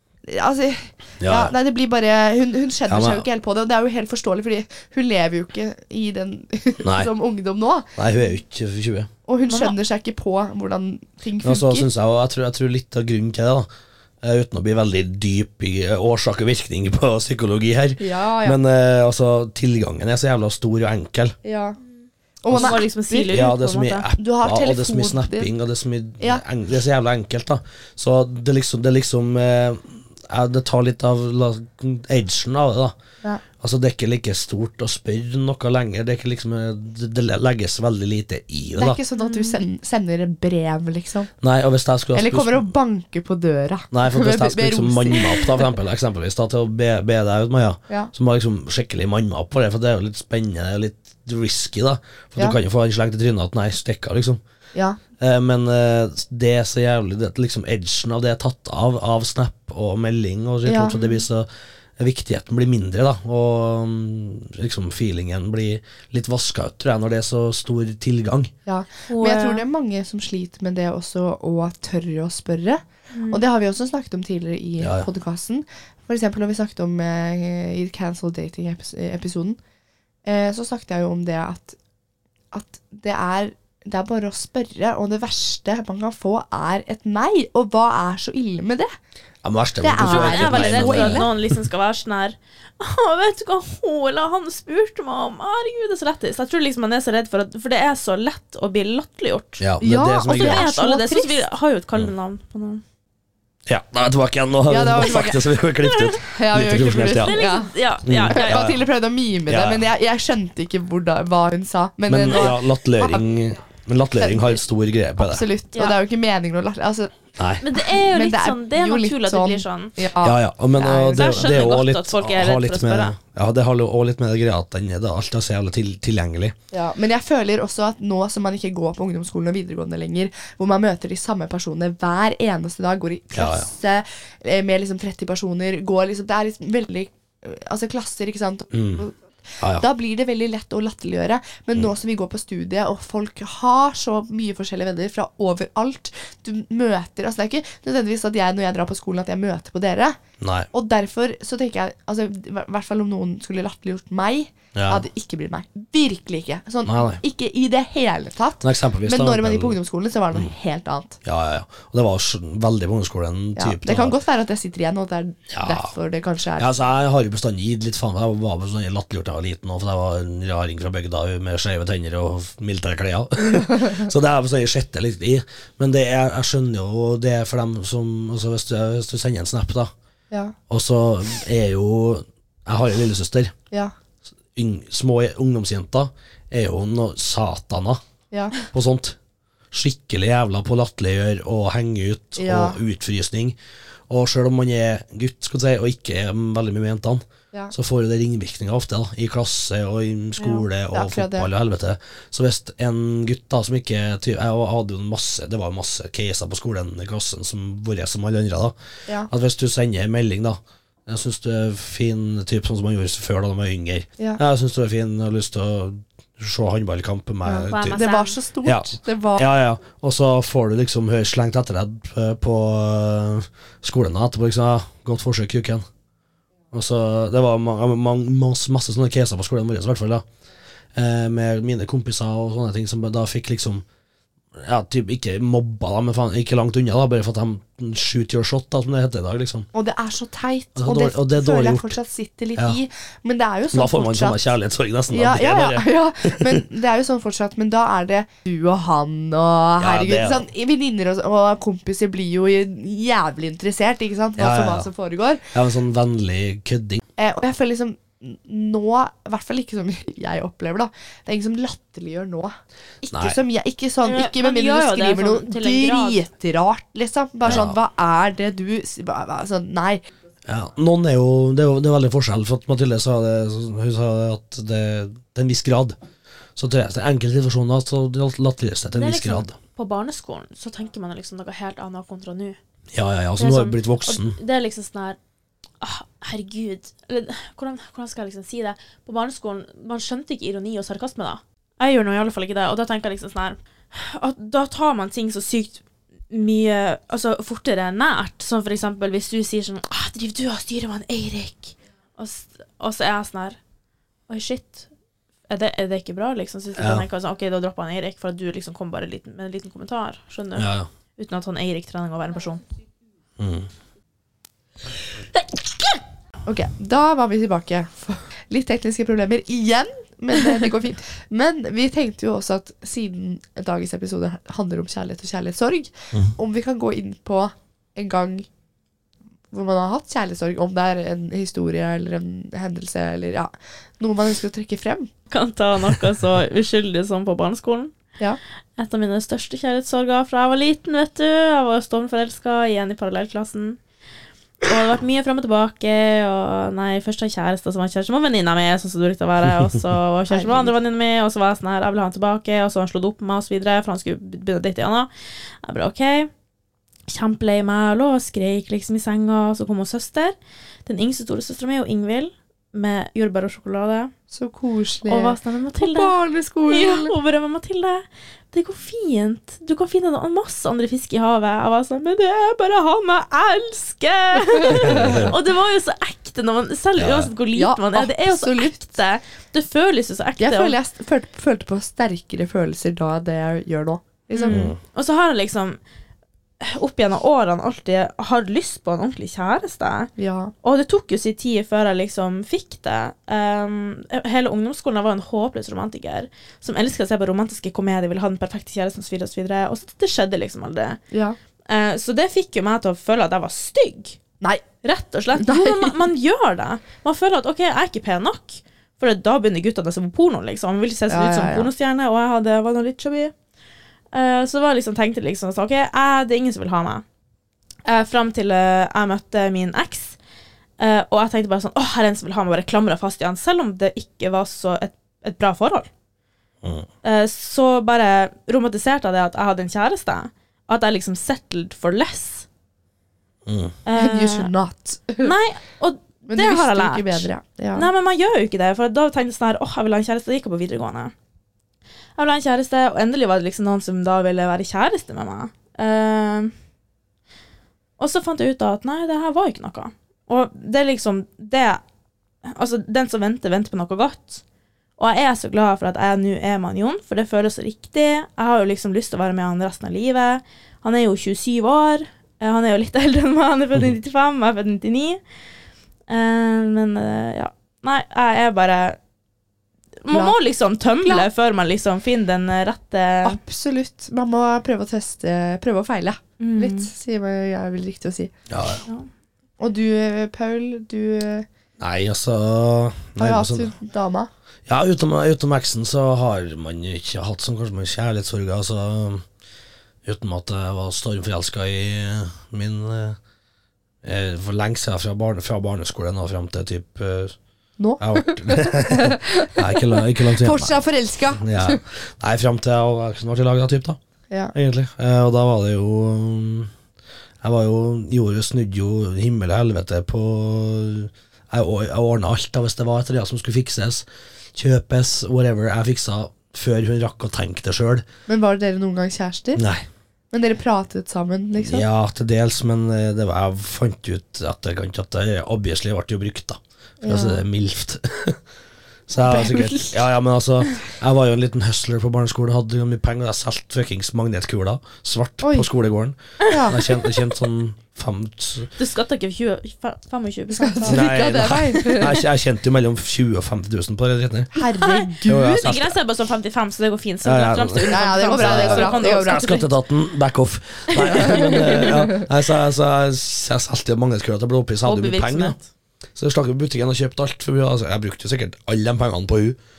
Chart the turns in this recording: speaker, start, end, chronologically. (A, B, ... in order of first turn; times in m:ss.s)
0:00.2-0:08.3 A
0:01.2-0:01.5 B
0:02.9-0:03.2 B
0:06.8-0:07.1 B
0:08.0-0:09.1 B
0:09.3-0:11.9 A
0:09.5-0:09.8 C
0:11.4-0:13.7 B
0:14.2-0:21.4 B
0:18.0-0:18.6 A
0:21.4-0:21.8 A
0:22.4-0:23.4 A
0:22.5-0:32.9 B
0:22.5-0:24.1 C
0:24.2-0:25.5 A
0:33.6-0:39.0 B
0:38.8-0:41.3 A
0:39.2-0:39.6 C
0:41.4-0:42.7 B
0:42.1-0:45.7 A
0:43.9-0:54.4 B
0:55.2-1:01.5 B
1:00.6-1:01.2 A
1:02.0-1:08.5 B
1:08.6-1:19.6 A
1:09.1-1:09.6 C
1:13.1-1:13.4 C
1:14.8-1:15.1 B
1:20.2-1:21.8 A
1:22.5-1:28.9 A
1:29.4-1:31.3 B
1:29.8-1:31.3 A
1:30.0-1:39.6 C
1:39.6-1:40.7 B
1:39.8-1:41.4 A
1:40.2-1:42.8 C
1:43.6-1:47.3 B
1:44.7-1:45.6 A
1:45.8-1:46.2 C
1:46.2-1:47.7 A
1:47.0-1:48.6 C
1:48.1-1:48.8 B
1:48.3-1:53.3 A
1:49.5-1:49.9 B
1:52.1-1:55.5 B
1:54.2-1:54.6 A
1:55.2-1:57.2 A
1:57.4-1:57.6 B
1:57.6-2:00.0 C
1:57.7-2:01.5 A
2:00.2-2:06.6 B
2:01.1-2:03.1 C
2:06.7-2:30.2 A
2:13.3-2:13.7 B
2:18.7-2:19.0 B
2:19.6-2:19.8 B
2:30.4-2:30.7 B
2:30.7-2:41.2 A
2:34.7-2:35.0 B
2:36.8-2:37.2 B
2:38.6-2:39.8 B
2:41.2-2:44.1 B
2:43.6-2:46.7 A
2:45.5-2:45.9 B
2:46.6-2:59.9 B
3:00.7-3:03.5 B
3:04.5-3:08.0 B
3:08.3-3:08.6 A
3:08.6-3:09.2 B
3:09.7-3:13.6 B
3:12.4-3:12.8 A
3:14.1-3:28.7 B
3:20.4-3:21.5 A
3:29.3-3:38.0 B
3:37.4-3:39.4 A
3:37.6-3:38.4 C
3:38.6-3:45.8 B
3:46.7-3:50.2 B
3:50.9-3:53.8 B
3:54.6-3:59.7 B
3:59.7-4:04.4 A
4:00.8-4:02.0 B
4:03.7-4:06.6 B
4:05.1-4:15.4 A
4:09.8-4:10.4 B
4:14.4-4:14.9 B
4:15.5-4:17.0 B
4:17.2-4:30.0 A
4:23.1-4:23.4 B
4:24.0-4:26.2 C
4:27.4-4:27.8 B
4:30.5-4:36.0 B
4:36.6-4:39.6 B
4:38.9-4:42.6 C
4:42.9-4:44.4 B
4:43.4-4:45.2 C
4:45.8-5:03.6 C
5:04.3-5:04.9 C
5:05.5-5:12.6 C
5:06.8-5:07.1 B
5:10.6-5:10.9 B
5:13.4-5:13.7 B
5:16.4-5:28.5 A
5:29.5-5:35.1 A
5:35.3-5:37.9 C
5:38.8-5:43.8 C
5:44.6-5:56.3 C
5:50.3-5:50.7 A
5:57.1-6:00.4 C
6:00.9-6:04.1 C
6:04.3-6:07.1 A
6:05.1-6:06.1 C
6:06.7-6:20.8 C
6:14.6-6:15.2 A
6:14.7-6:15.4 B
6:17.0-6:17.3 B
6:17.6-6:19.0 A
6:20.4-6:24.7 A
6:24.3-6:25.8 C
6:24.5-6:24.8 B
6:26.6-6:41.0 C
6:30.2-6:30.5 A
6:41.1-6:41.4 A
6:41.7-6:44.2 C
6:44.8-6:53.3 C
6:45.4-6:45.9 A
6:51.1-6:51.7 A
6:54.1-6:57.0 C
6:57.9-7:00.2 C
7:00.8-7:05.9 C
7:06.6-7:06.9 B
7:07.0-7:12.4 C
7:13.4-7:13.8 B
7:13.9-7:14.5 C
7:13.9-7:15.3 A
7:15.2-7:21.1 C
7:16.2-7:17.9 A
7:22.2-7:26.5 C
7:28.0-7:31.8 C
7:32.4-7:34.4 C
7:35.0-7:45.2 C
7:46.1-7:49.0 C
7:50.0-7:53.4 C
7:53.2-7:58.3 A
7:56.4-7:56.9 C
7:58.5-7:58.8 B
7:59.6-8:01.4 A
8:01.8-8:03.7 B
8:03.2-8:04.3 A
8:04.7-8:09.2 B
8:10.0-8:13.2 B
8:14.0-8:17.4 B
8:17.8-8:21.8 A
8:18.0-8:24.0 B
8:24.5-8:26.7 B
8:27.4-8:38.1 B
8:38.3-8:39.6 A
8:39.6-8:39.9 B
8:40.3-8:41.8 A
8:41.6-8:48.4 B
8:47.0-8:47.4 A
8:49.1-8:58.7 B
8:49.2-8:49.9 A
8:55.4-8:55.7 A
8:56.5-8:57.1 A
8:58.8-9:01.0 C
9:00.5-9:02.2 A
9:00.9-9:04.6 B
9:04.6-9:05.8 A
9:04.8-9:09.6 C
9:05.2-9:06.0 B
9:07.2-9:15.6 B
9:07.9-9:09.6 A
9:11.0-9:11.9 C
9:11.1-9:12.3 A
9:14.8-9:15.6 C
9:16.2-9:19.6 B